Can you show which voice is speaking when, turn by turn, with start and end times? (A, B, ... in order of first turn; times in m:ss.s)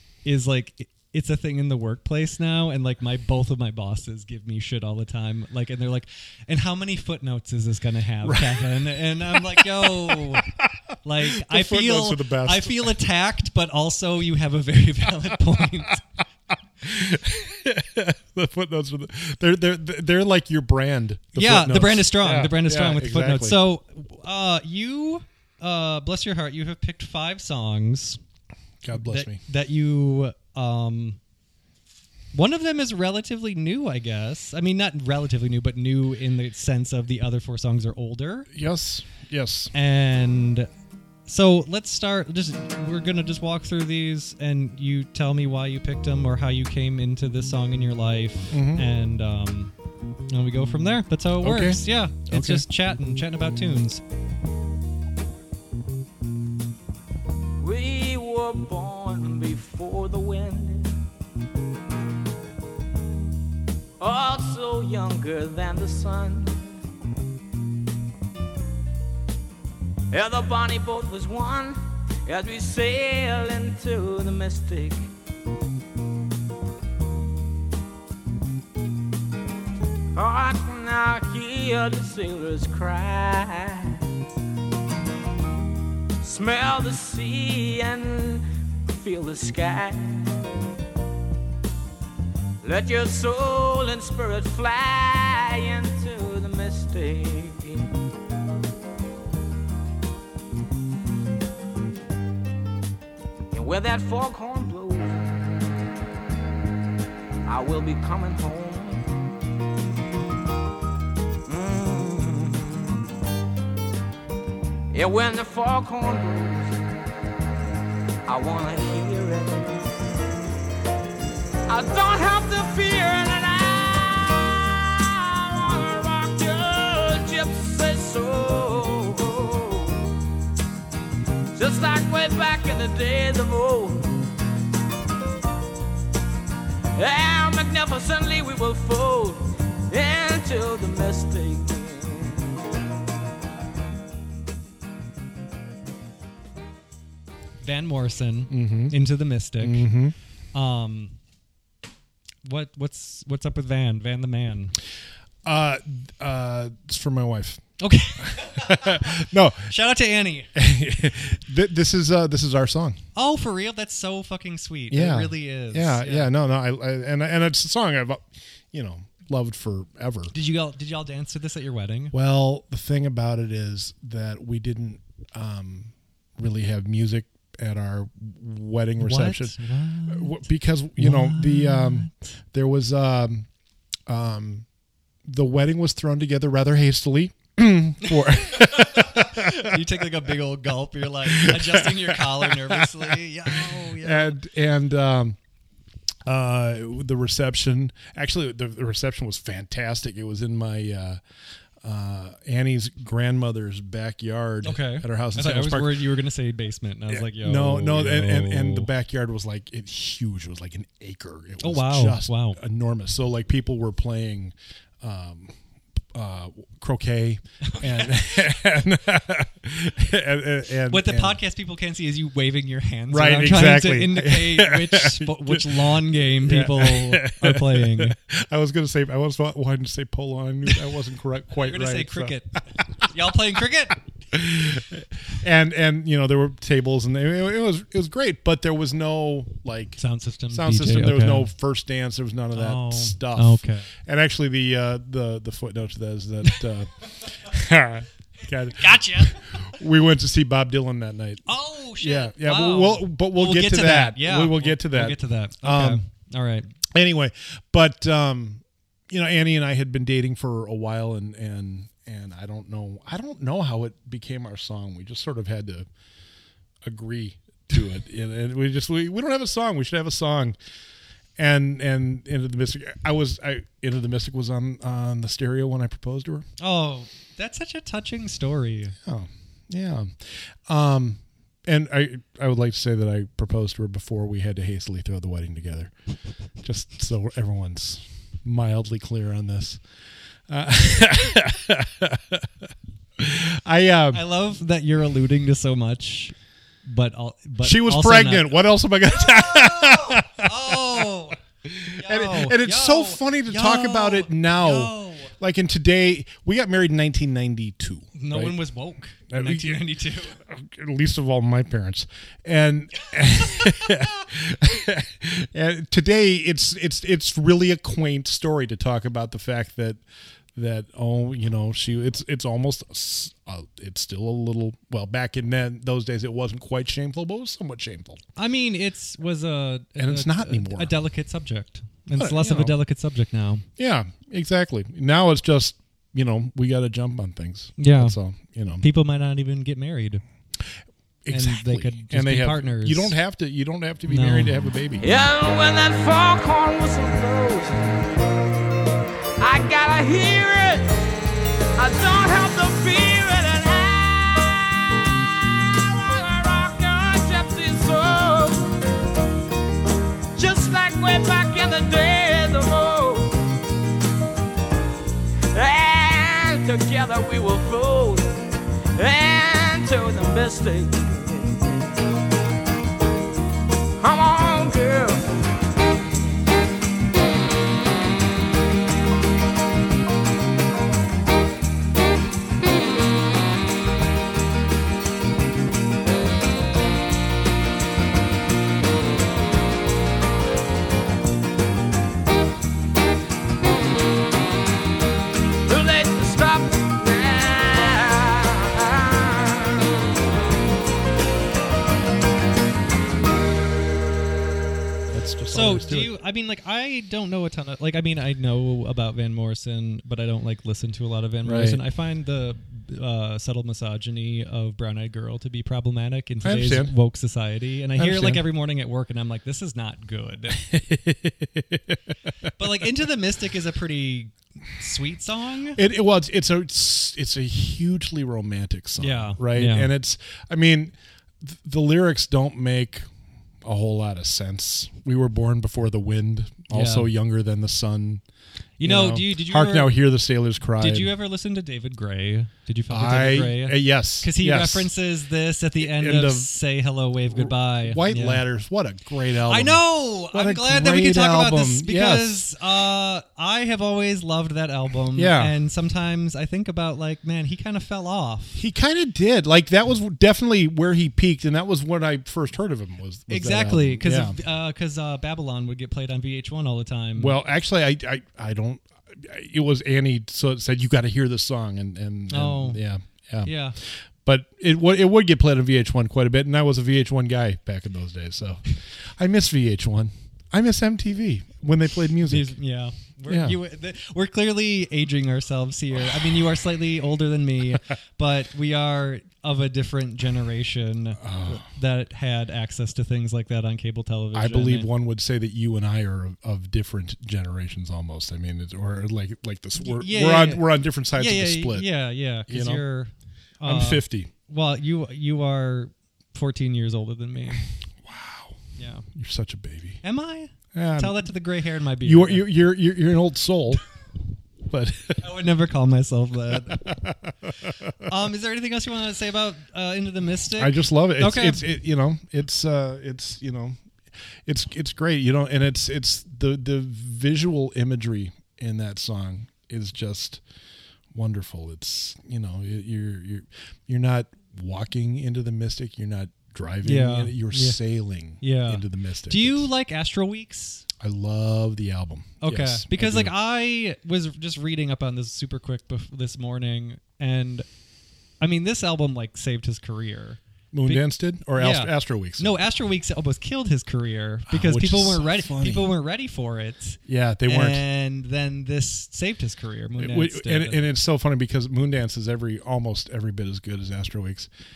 0:00.2-0:10.5 A
0:08.2-0:10.7 B
0:11.0-0:16.0 A
0:11.2-0:13.0 B
0:16.8-0:23.6 B
0:21.4-0:28.2 A
0:28.8-0:29.4 B
0:28.9-0:31.2 A
0:32.3-0:38.5 A
0:38.5-0:39.7 B
0:39.7-0:40.7 A
0:41.3-0:49.7 A
0:48.5-0:48.9 B
0:50.3-0:54.0 A
0:51.4-0:52.7 B
0:57.6-1:01.0 C
1:04.0-1:06.7 C
1:10.1-1:15.1 C
1:20.2-1:24.0 C
1:26.2-1:30.6 C
1:32.6-1:37.9 C
1:43.5-1:45.8 C
1:47.5-1:49.1 C
1:51.5-1:53.0 C
1:54.9-1:56.8 C
1:58.3-1:59.9 C
2:01.7-2:10.1 C
2:11.6-2:14.2 C
2:17.0-2:22.6 C
2:27.6-2:29.9 A
2:28.5-2:29.0 B
2:29.6-2:30.2 B
2:30.5-2:31.2 A
2:32.4-2:34.8 A
2:35.4-2:37.6 B
2:37.8-2:40.5 A
2:38.2-2:39.7 B
2:40.6-2:43.0 B
2:43.2-2:46.3 A
2:44.9-2:50.3 B
2:50.3-2:52.1 A
2:52.1-2:59.6 B
2:59.0-3:00.4 A
3:00.1-3:03.5 B
3:01.0-3:02.3 A
3:04.1-3:04.7 B
3:05.3-3:10.2 B
3:08.0-3:14.4 A
3:11.2-3:15.4 B
3:16.3-3:21.2 B
3:21.8-3:26.1 B
3:24.6-3:28.9 A
3:27.1-3:35.6 B
3:31.6-3:32.6 A
3:36.1-3:41.4 B
3:37.7-3:38.1 A
3:40.9-3:48.2 A
3:43.1-3:53.0 B
3:51.6-3:54.0 A
3:54.3-4:16.0 B
4:00.0-4:01.5 A
4:02.5-4:03.9 A
4:08.8-4:09.4 A
4:11.5-4:16.7 A
4:16.9-4:25.9 B
4:26.8-4:30.6 B
4:31.4-4:36.5 B
4:36.6-4:39.0 A
4:39.0-4:45.9 B
4:46.6-4:49.8 B
4:50.5-4:52.7 B
4:53.2-4:54.2 B
4:54.1-4:58.6 A
4:57.6-5:01.1 B
4:59.1-5:01.4 A
5:01.6-5:08.6 B
5:01.9-5:05.3 A
5:08.2-5:10.4 A
5:09.3-5:09.8 B
5:10.4-5:20.0 B
5:20.6-5:28.2 B
5:28.4-5:33.7 A
5:30.0-5:31.0 B
5:32.2-5:32.8 B
5:33.8-5:38.9 B
5:37.8-5:38.2 A
5:38.8-5:40.2 A
5:41.2-5:45.2 B
5:41.3-5:43.2 A
5:44.1-5:44.7 A
5:45.0-5:48.1 C
5:49.4-5:51.0 C
5:51.8-5:58.7 C
6:00.4-6:03.4 C
6:05.5-6:12.0 C
6:14.0-6:15.3 C
6:35.7-6:40.0 C
6:45.1-6:46.1 B
6:45.5-7:00.6 A
6:51.4-6:51.8 B
6:56.4-6:56.9 B
6:58.0-6:58.4 B
7:00.6-7:02.0 B
7:02.6-7:05.8 A
7:05.8-7:13.1 B
7:09.0-7:09.9 A
7:13.6-7:18.2 B
7:16.7-7:17.1 A
7:18.8-7:20.0 A
7:18.8-7:21.1 B
7:20.8-7:28.4 A
7:22.9-7:24.9 B
7:25.8-7:26.6 B
7:27.3-7:32.5 B
7:29.5-7:38.6 A
7:35.2-7:35.5 B
7:38.6-7:44.4 B
7:43.3-7:47.4 A
7:47.2-8:02.6 B
7:52.3-7:52.8 A
7:53.4-7:53.8 A
8:02.2-8:14.9 A
8:03.3-8:03.6 B
8:06.0-8:06.4 B
8:11.2-8:11.7 B
8:14.3-8:21.9 B
8:19.8-8:27.6 A
8:22.5-8:22.8 B
8:23.6-8:24.3 B
8:28.0-8:28.6 B
8:28.8-8:29.1 A
8:29.1-8:30.0 B
8:30.0-8:32.5 A
8:30.7-8:31.3 B
8:32.0-8:33.8 B
8:34.7-8:35.2 B
8:35.2-8:37.0 A
8:36.5-8:37.9 B
8:38.0-8:41.6 A
8:40.6-8:43.8 B
8:44.4-8:50.4 B
8:51.1-8:59.7 B
8:56.8-8:57.8 A
8:58.4-9:00.8 A
9:01.0-9:03.3 B
9:02.4-9:07.6 A
9:08.4-9:20.9 A
9:10.7-9:12.6 B
9:14.5-9:15.9 B
9:17.1-9:17.8 B
9:20.0-9:24.5 B